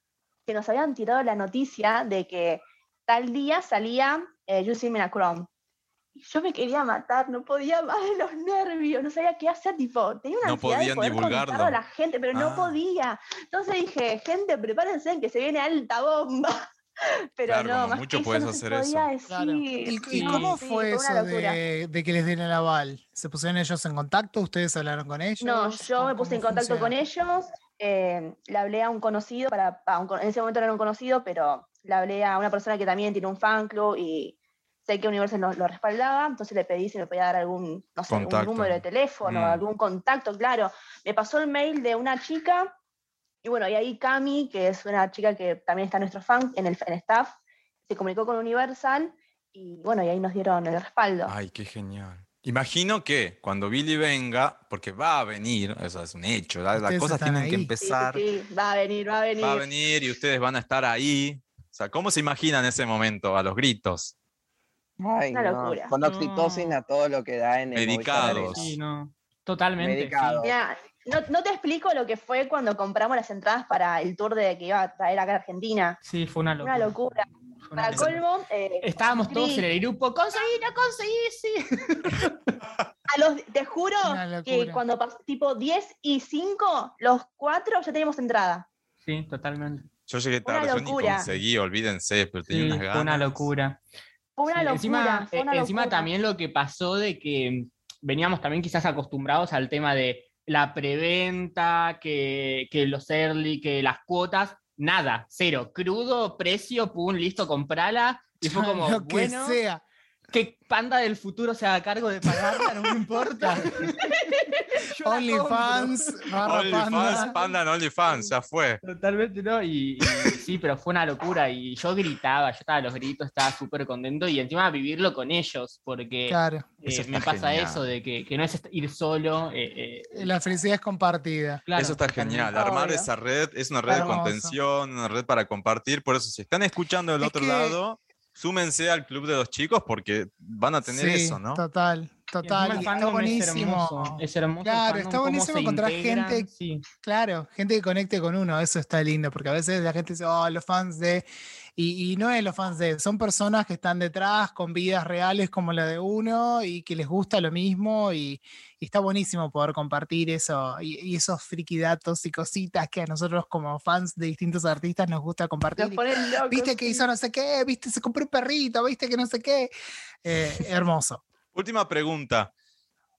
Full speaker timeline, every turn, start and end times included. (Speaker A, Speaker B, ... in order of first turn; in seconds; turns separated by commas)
Speaker A: 0.5-5.5, Speaker A: 6.2-16.7, Speaker B: 10.4-11.8, Speaker B: 12.3-12.8, Speaker A: 17.4-21.6, Speaker B: 17.4-19.1, Speaker C: 19.3-26.9, Speaker D: 20.1-20.5, Speaker A: 25.4-42.8, Speaker B: 38.1-39.6, Speaker A: 43.4-47.3, Speaker A: 47.9-51.3, Speaker B: 51.2-58.2, Speaker C: 56.8-57.7, Speaker A: 57.8-59.6, Speaker B: 59.4-64.1, Speaker E: 65.0-68.8, Speaker A: 65.3-65.9, Speaker D: 66.0-66.8, Speaker B: 67.7-68.6, Speaker D: 68.2-70.4, Speaker E: 69.8-70.5, Speaker A: 70.4-76.0, Speaker D: 76.0-76.9, Speaker A: 76.6-79.7, Speaker D: 77.6-78.2, Speaker D: 78.8-82.5, Speaker A: 83.1-88.7, Speaker C: 84.0-84.8, Speaker D: 89.0-89.9, Speaker B: 90.1-93.5, Speaker A: 90.4-91.3, Speaker D: 92.5-93.8, Speaker A: 94.4-96.1, Speaker D: 94.5-109.6, Speaker C: 108.4-109.8, Speaker D: 110.3-114.1, Speaker C: 113.4-113.7, Speaker D: 114.8-118.3, Speaker C: 115.0-117.3, Speaker B: 116.4-118.8, Speaker D: 118.8-130.3, Speaker C: 126.3-126.7, Speaker B: 126.8-127.8, Speaker C: 130.1-131.6, Speaker D: 131.7-132.5, Speaker B: 131.8-141.6, Speaker A: 132.5-133.1, Speaker C: 133.9-134.6, Speaker C: 137.2-137.8, Speaker C: 140.8-146.5, Speaker D: 142.4-146.8, Speaker A: 142.7-143.6, Speaker C: 147.0-169.7, Speaker A: 165.8-167.0, Speaker C: 170.2-171.2, Speaker B: 171.5-172.5